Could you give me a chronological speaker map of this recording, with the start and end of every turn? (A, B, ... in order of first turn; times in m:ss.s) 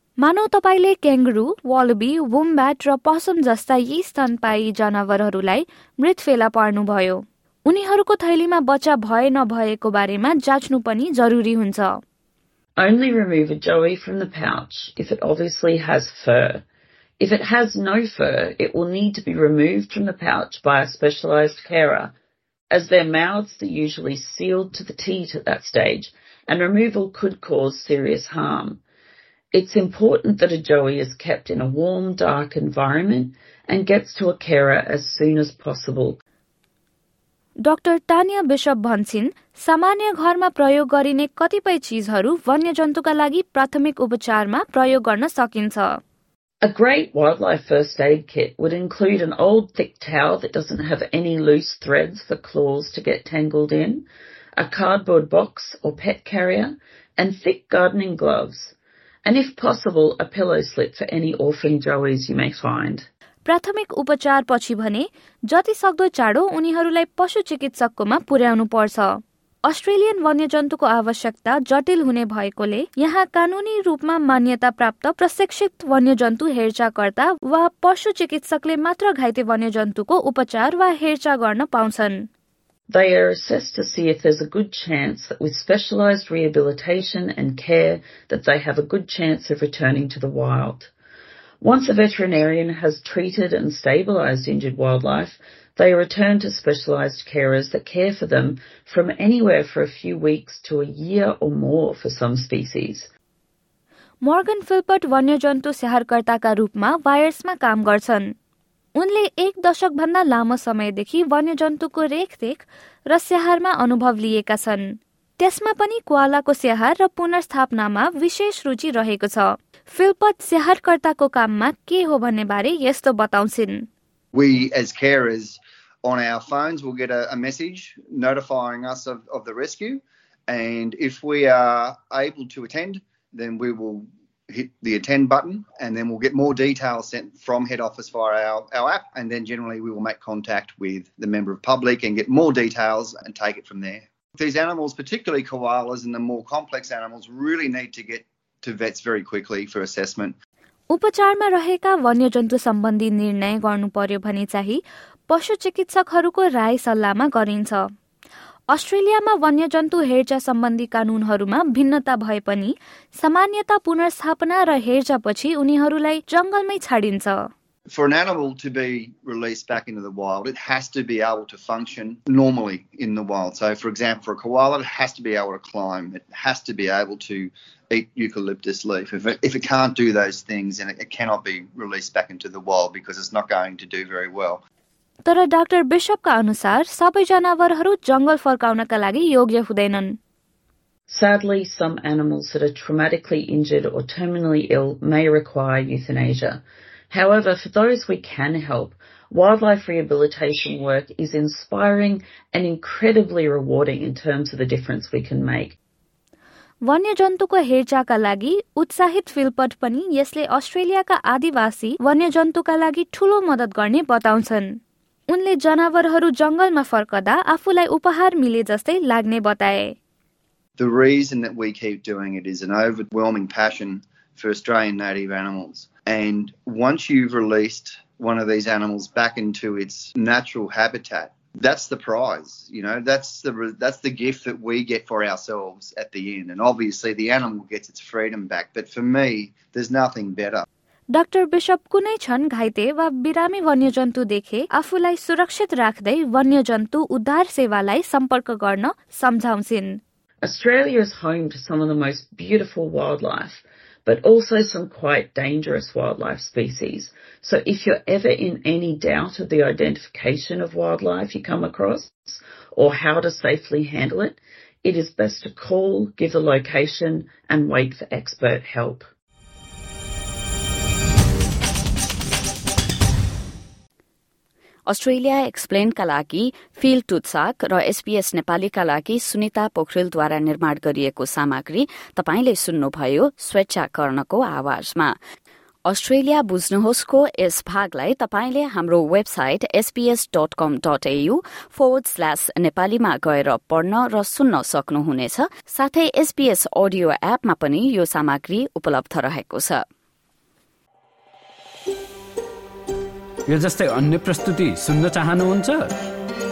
0:00.2-0:12.0 A
0:12.8-0:16.6 B
0:17.2-0:22.1 B
0:22.7-0:28.8 B
0:29.5-0:36.2 B
0:37.6-0:46.0 A
0:46.6-1:03.1 B
1:03.4-1:22.3 A
1:22.9-1:30.9 B
1:31.6-1:43.1 B
1:44.2-1:48.3 A
1:49.0-2:03.9 A
2:04.3-2:30.4 C
2:30.9-2:37.8 A
2:38.7-2:47.5 A
2:47.9-3:04.6 C
3:05.2-3:10.2 A
3:11.1-3:25.8 B
3:26.8-3:34.8 A
3:35.3-3:40.0 A
3:40.8-4:00.6 C
4:01.1-4:10.0 A
4:10.4-4:29.1 B
4:34.9-4:45.1 D
4:45.9-4:59.8 D
5:03.5-5:05.9 E